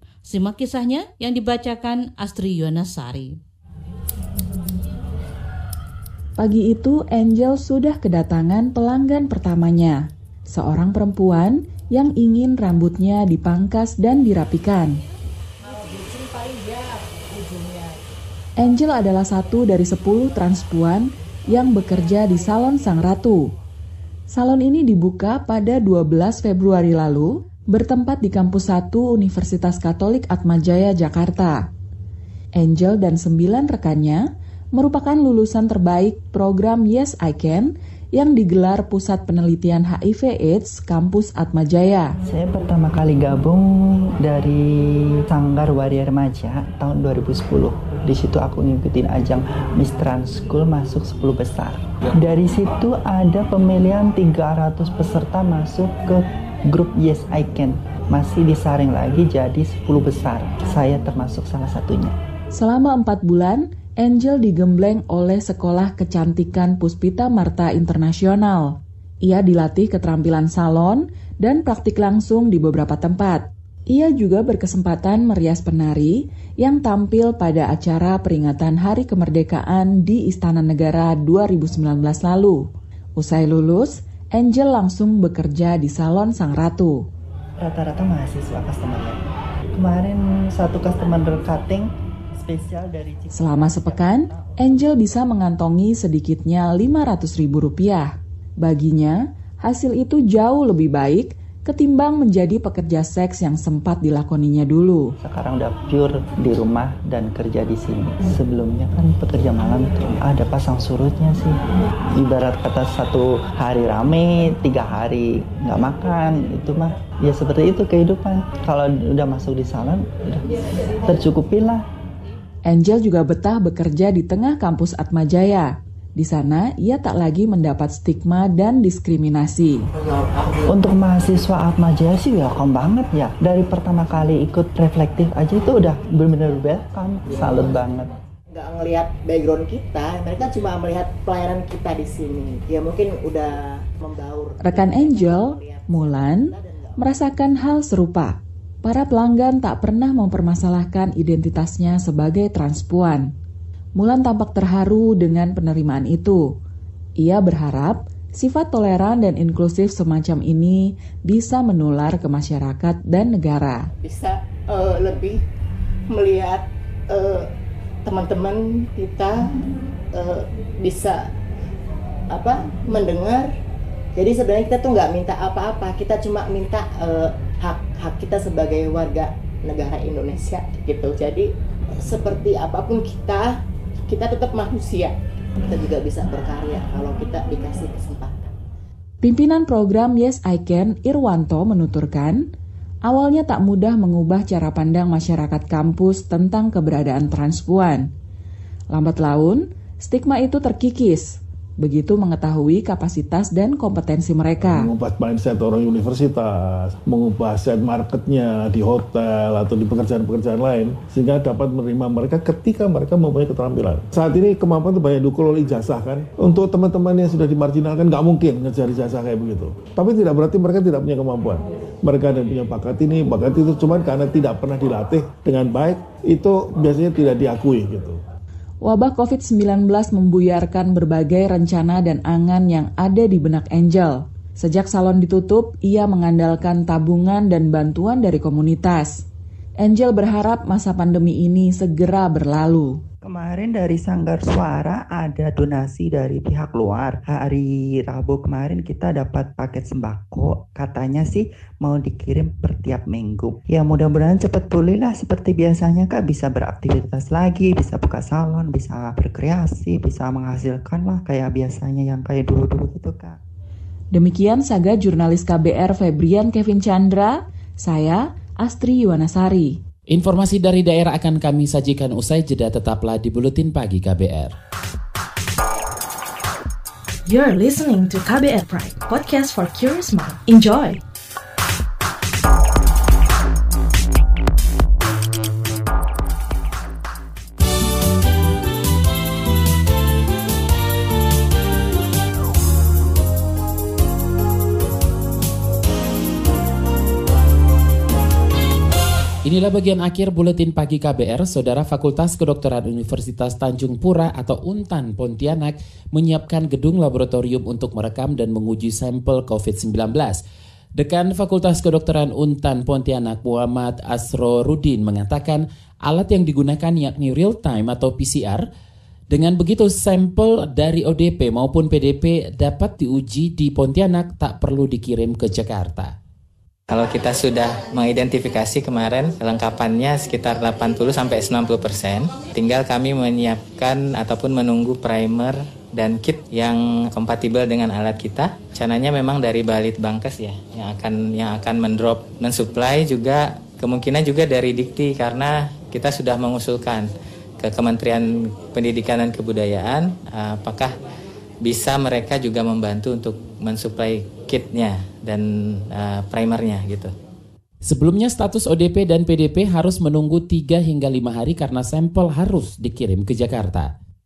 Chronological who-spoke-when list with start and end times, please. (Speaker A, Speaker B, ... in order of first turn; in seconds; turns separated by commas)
Speaker A: 0.3-3.4, Speaker B: 6.4-15.0, Speaker B: 18.6-23.5, Speaker B: 24.3-31.6, Speaker B: 32.6-42.1, Speaker C: 42.3-62.2, Speaker B: 62.5-82.6, Speaker B: 83.2-87.1, Speaker C: 87.6-89.2, Speaker C: 89.7-95.0, Speaker B: 93.3-98.1, Speaker B: 98.6-105.1, Speaker C: 105.2-111.5, Speaker C: 112.2-120.5, Speaker C: 121.1-121.8, Speaker B: 122.7-129.9, Speaker D: 130.1-130.5, Speaker C: 130.7-138.1, Speaker D: 138.6-147.0, Speaker B: 144.6-153.3, Speaker B: 154.0-156.4, Speaker B: 157.2-163.9, Speaker D: 164.0-165.4, Speaker D: 166.1-166.6, Speaker D: 168.1-169.3, Speaker D: 170.2-171.1, Speaker D: 172.4-173.5, Speaker D: 174.2-181.4, Speaker D: 182.1-183.4, Speaker D: 184.1-185.1, Speaker D: 185.7-188.5, Speaker B: 189.2-192.4, Speaker B: 193.1-198.1, Speaker B: 198.9-204.9, Speaker E: 204.6-228.2, Speaker B: 228.8-239.2, Speaker B: 239.8-243.0, Speaker C: 243.2-263.4, Speaker B: 264.1-269.8, Speaker F: 270.1-274.6, Speaker G: 277.3-281.0, Speaker F: 299.4-310.4, Speaker F: 311.0-318.6, Speaker F: 319.3-326.1, Speaker H: 326.9-347.1, Speaker H: 347.6-350.9, Speaker H: 351.6-357.1, Speaker F: 357.8-363.9